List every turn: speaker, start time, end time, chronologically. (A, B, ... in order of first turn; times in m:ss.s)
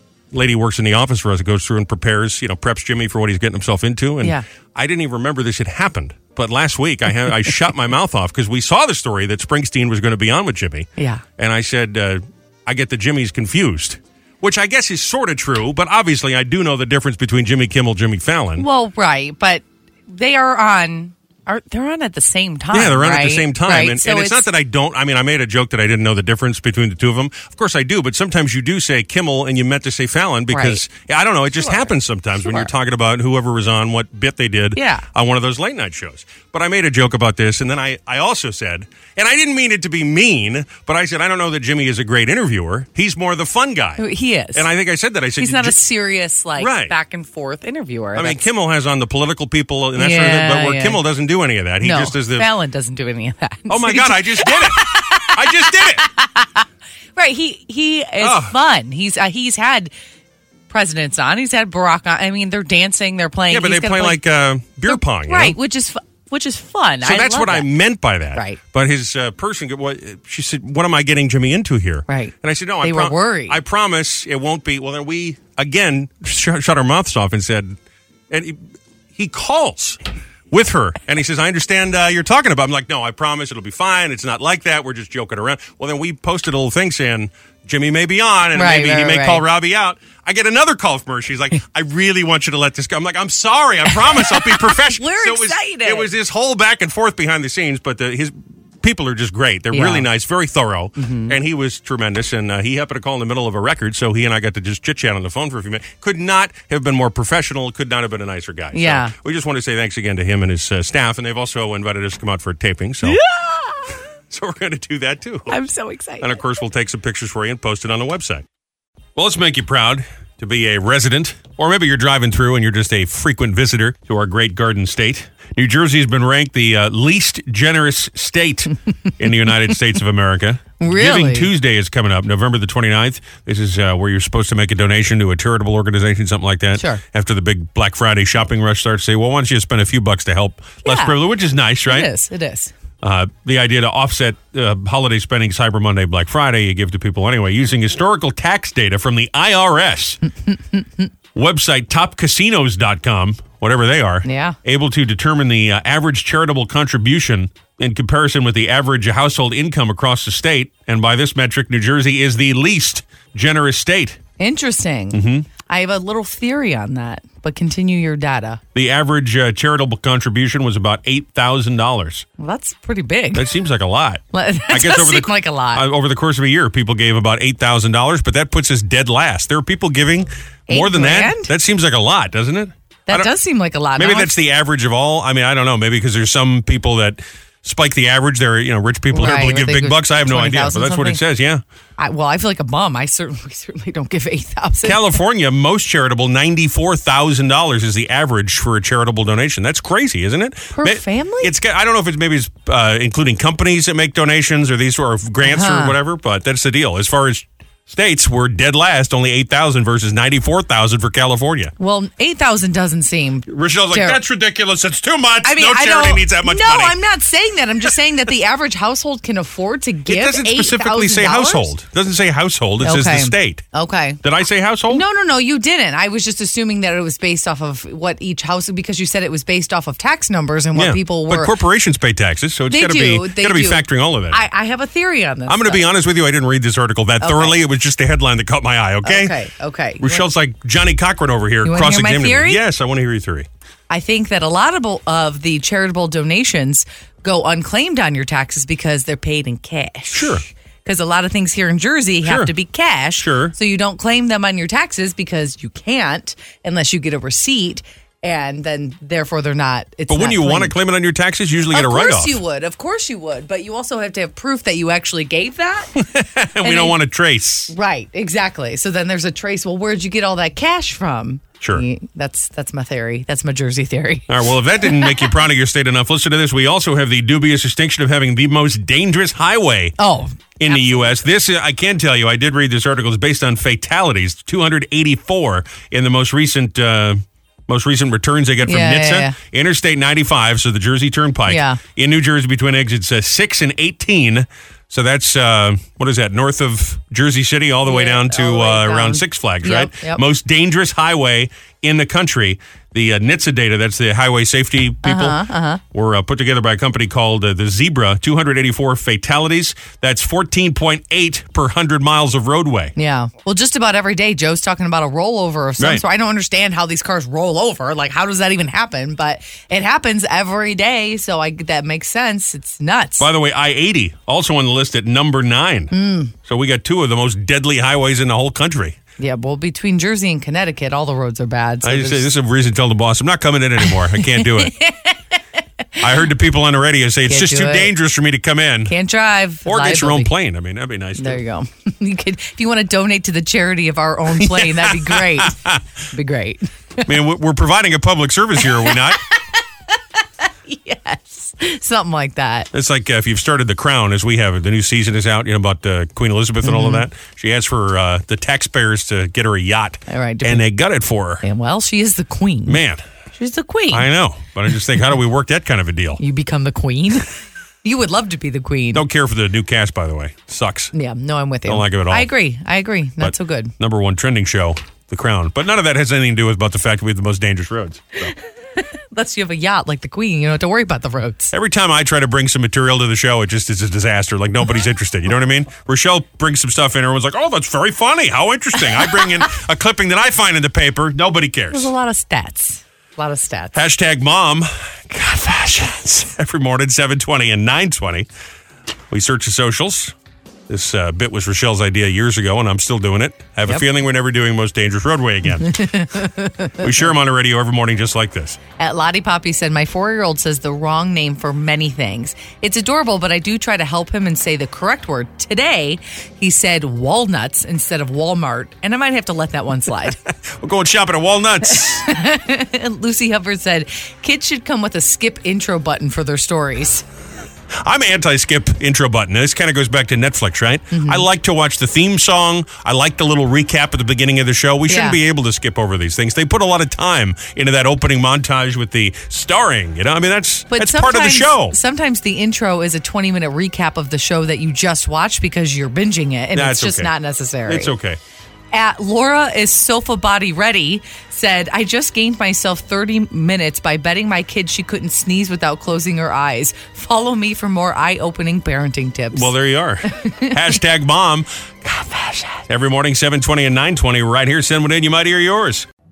0:00.3-0:18.7 A
0:11.0-0:11.2 B
0:18.6-0:24.5 B
0:22.7-0:45.8 A
0:30.5-0:30.8 B
0:31.6-0:32.7 B
0:34.8-0:35.1 B
0:44.0-0:44.7 B
0:45.4-0:48.4 B
0:46.6-0:46.9 A
0:48.2-0:52.5 A
0:50.0-0:51.0 B
0:51.8-0:56.6 B
0:53.7-0:56.1 A
0:57.2-0:59.9 B
0:58.2-0:58.6 A
1:00.7-1:04.2 B
1:03.5-1:05.6 A
1:04.9-1:07.7 B
1:07.0-1:17.8 A
1:08.3-1:08.6 B
1:12.1-1:13.6 B
1:18.3-1:18.6 A
1:19.2-1:20.0 A
1:20.5-1:53.2 A
1:28.5-1:29.4 B
1:34.0-1:36.1 B
1:39.7-1:40.1 B
1:41.0-1:41.4 B
1:48.7-1:49.1 B
1:53.0-1:54.0 B
1:54.3-1:55.6 A
1:55.5-1:56.4 B
1:56.2-1:58.4 A
1:59.2-2:22.1 A
2:10.8-2:11.5 B
2:16.8-2:17.0 B
2:20.8-2:21.2 B
2:21.9-2:22.7 B
2:23.0-2:30.2 A
2:31.4-2:44.2 A
2:34.2-2:34.6 B
2:44.4-2:48.6 B
2:45.1-2:45.5 A
2:48.8-2:52.3 A
2:52.4-2:53.5 B
2:53.3-3:03.3 A
2:54.3-2:55.9 B
3:00.7-3:01.5 B
3:03.1-3:04.3 B
3:04.0-3:11.6 A
3:09.1-3:11.2 B
3:12.0-3:15.0 B
3:14.8-3:31.7 A
3:20.7-3:21.5 B
3:25.4-3:26.0 B
3:31.8-3:34.2 B
3:33.5-3:37.0 A
3:35.4-3:41.7 B
3:40.1-3:43.6 A
3:42.8-3:44.2 B
3:44.2-3:45.0 A
3:44.9-3:51.5 B
3:50.8-3:54.4 A
3:52.7-3:55.8 B
3:55.5-3:59.3 A
3:57.2-3:57.6 B
3:59.0-4:00.3 B
4:00.0-4:03.5 A
4:01.6-4:02.6 B
4:03.9-4:20.7 B
4:10.1-4:10.4 A
4:12.2-4:12.5 A
4:13.2-4:13.6 A
4:20.1-4:22.4 A
4:21.7-4:25.9 B
4:26.0-4:27.7 A
4:26.6-4:27.0 B
4:27.7-4:34.3 B
4:34.3-4:40.0 A
4:34.8-4:35.3 B
4:40.0-4:41.1 B
4:40.6-5:05.4 A
4:48.6-4:49.4 B
4:51.5-4:51.8 B
4:57.9-5:00.2 B
5:05.0-5:05.8 B
5:05.9-5:12.9 A
5:13.0-5:23.3 B
5:23.2-5:29.0 A
5:25.9-5:26.3 B
5:29.2-5:32.3 B
5:31.8-5:34.8 A
5:34.2-5:35.2 B
5:36.0-5:38.9 A
5:37.3-5:37.9 B
5:38.9-5:40.3 B
5:39.6-5:41.4 A
5:41.2-5:46.7 B
5:44.4-5:45.8 A
5:47.1-5:49.2 A
5:48.6-5:49.0 B
5:50.7-5:52.7 B
5:52.7-6:01.4 A
5:56.6-5:57.1 B
6:00.1-6:00.7 B
6:01.4-6:02.8 B
6:02.7-6:03.0 A
6:03.4-6:04.1 B
6:03.9-6:06.2 A
6:06.2-6:07.3 B
6:07.8-6:09.0 B
6:08.9-6:10.9 A
6:10.9-6:13.7 B
6:11.7-6:12.3 A
6:13.2-6:18.3 A
6:18.8-6:21.5 B
6:21.5-6:31.9 A
6:31.7-6:33.8 B
6:33.7-6:38.3 A
6:39.1-6:40.1 A
6:40.7-6:45.8 A
6:45.6-6:46.8 B
6:46.8-6:48.6 A
6:48.8-7:00.2 B
7:00.6-7:02.1 A
7:01.7-7:07.0 B
7:07.8-7:21.8 A
7:10.9-7:11.3 B
7:14.9-7:15.2 B
7:20.7-7:28.0 B
7:26.5-7:27.1 A
7:27.7-7:28.2 A
7:28.7-7:39.5 B
7:39.3-7:41.5 A
7:40.2-7:40.5 B
7:41.8-7:42.6 B
7:42.7-7:45.9 A